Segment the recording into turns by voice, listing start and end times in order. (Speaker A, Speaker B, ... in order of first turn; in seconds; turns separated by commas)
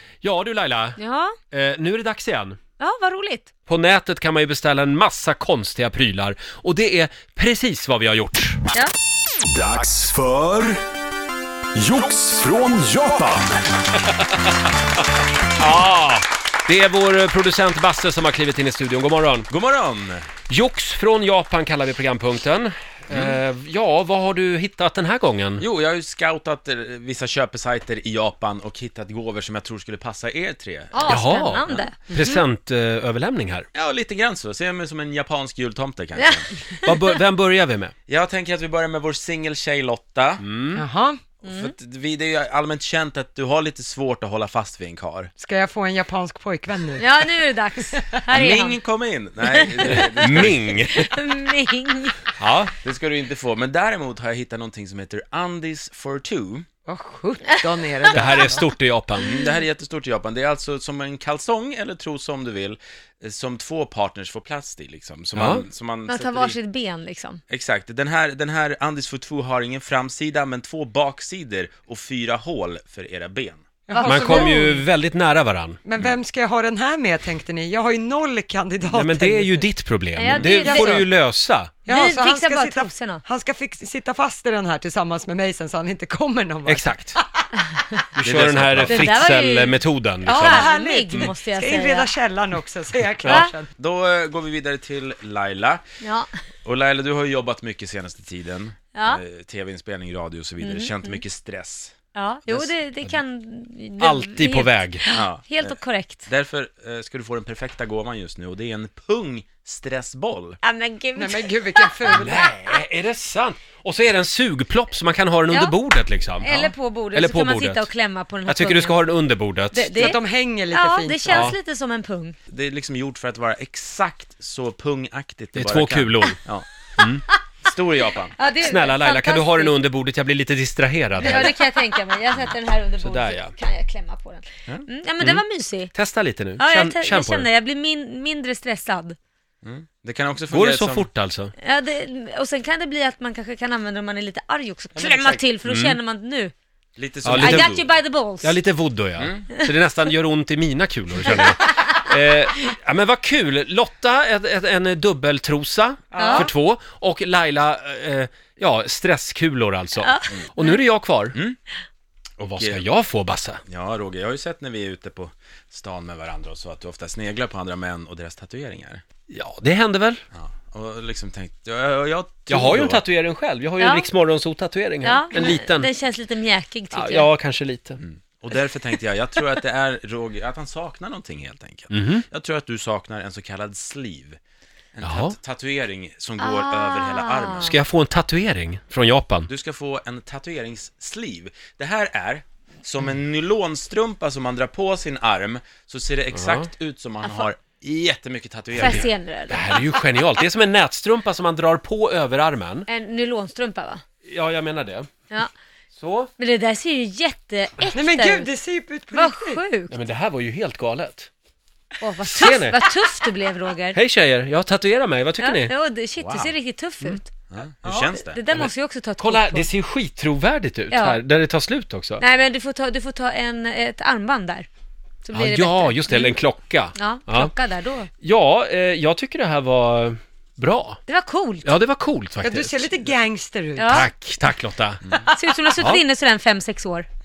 Speaker A: 0.2-1.0, Speaker B: 1.0-1.3, Speaker A: 1.5-2.6, Speaker B: 2.8-3.5, Speaker A: 3.6-8.6, Speaker C: 9.5-10.8, Speaker C: 11.8-13.5, Speaker A: 15.6-19.5, Speaker D: 19.5-20.3, Speaker A: 20.5-25.6, Speaker D: 23.1-23.4, Speaker D: 25.6-31.9, Speaker B: 30.9-32.4, Speaker A: 31.1-33.7, Speaker D: 33.7-36.5, Speaker B: 36.2-37.2, Speaker A: 36.8-37.9, Speaker D: 38.1-40.4, Speaker A: 40.4-40.8, Speaker E: 40.7-41.2, Speaker D: 41.4-45.3, Speaker B: 41.4-41.7, Speaker E: 45.4-47.2, Speaker B: 47.0-48.8, Speaker D: 48.3-50.8, Speaker B: 49.5-52.2, Speaker A: 49.9-51.1, Speaker A: 52.4-52.7, Speaker D: 52.8-56.6, Speaker E: 56.9-58.7, Speaker A: 58.1-59.3, Speaker D: 59.2-66.6, Speaker A: 65.3-65.6, Speaker B: 66.1-67.4, Speaker D: 67.5-73.6, Speaker E: 73.9-74.8, Speaker B: 73.9-74.8, Speaker A: 74.0-75.8, Speaker E: 75.8-79.7, Speaker A: 78.9-81.7, Speaker B: 80.2-81.1, Speaker E: 80.6-81.1, Speaker E: 81.8-87.2, Speaker B: 81.9-83.2, Speaker A: 86.7-87.2, Speaker A: 88.2-91.3, Speaker D: 88.2-89.3, Speaker B: 88.9-92.1, Speaker E: 90.3-93.7, Speaker B: 93.2-93.5, Speaker D: 93.8-95.8, Speaker B: 96.0-96.3, Speaker D: 96.6-101.9, Speaker B: 98.9-99.2, Speaker B: 100.6-101.2, Speaker B: 102.1-106.2, Speaker A: 104.0-105.0, Speaker D: 105.1-110.6, Speaker B: 110.6-112.5, Speaker E: 111.2-112.5, Speaker A: 112.1-117.9, Speaker B: 115.5-115.8, Speaker B: 116.4-119.0, Speaker A: 118.5-120.1, Speaker B: 119.7-122.3, Speaker E: 120.0-121.5, Speaker A: 121.3-121.6, Speaker D: 122.5-126.7, Speaker A: 125.5-126.4, Speaker A: 127.0-127.2, Speaker D: 127.6-128.3, Speaker B: 128.4-129.7, Speaker A: 128.6-131.5, Speaker B: 131.2-135.9, Speaker A: 133.0-133.5, Speaker A: 135.2-137.5, Speaker B: 136.6-139.2, Speaker D: 139.6-141.1, Speaker A: 140.5-141.5, Speaker B: 141.6-146.5, Speaker D: 144.9-145.4, Speaker A: 145.6-146.0, Speaker D: 147.0-147.9, Speaker A: 147.2-147.8, Speaker B: 147.4-148.6, Speaker A: 148.4-161.3, Speaker D: 149.2-149.5, Speaker B: 151.3-151.8, Speaker E: 156.1-156.5, Speaker B: 156.2-156.5, Speaker B: 160.0-160.8, Speaker D: 161.3-161.6, Speaker A: 162.4-163.6, Speaker D: 162.5-162.9, Speaker D: 163.7-169.0, Speaker A: 169.3-170.2, Speaker D: 170.3-173.0, Speaker A: 172.5-175.9, Speaker B: 173.8-174.1, Speaker B: 175.0-177.3, Speaker A: 176.9-178.0, Speaker D: 178.0-184.4, Speaker A: 181.9-182.2, Speaker D: 184.9-187.8, Speaker A: 185.0-185.3, Speaker B: 186.4-187.7, Speaker A: 187.6-189.5, Speaker D: 189.5-199.1, Speaker A: 196.3-196.7, Speaker B: 198.7-199.8, Speaker A: 198.8-202.9, Speaker B: 202.9-204.0, Speaker A: 204.2-205.1, Speaker A: 205.9-206.3, Speaker B: 206.4-208.5, Speaker E: 207.9-209.6, Speaker B: 209.1-209.9, Speaker A: 209.9-211.3, Speaker B: 212.0-214.0, Speaker A: 212.2-212.8, Speaker A: 213.9-215.7, Speaker B: 215.4-217.3, Speaker D: 216.2-216.5, Speaker D: 217.5-218.6, Speaker B: 217.9-219.7, Speaker A: 218.5-222.2, Speaker B: 220.9-221.2, Speaker B: 222.2-224.7, Speaker B: 225.2-226.4, Speaker A: 225.3-227.5, Speaker B: 226.9-228.1, Speaker A: 228.2-231.0, Speaker B: 231.1-231.7, Speaker A: 231.6-232.9, Speaker E: 232.4-234.1, Speaker B: 233.8-234.1, Speaker A: 233.9-235.0, Speaker B: 235.3-237.1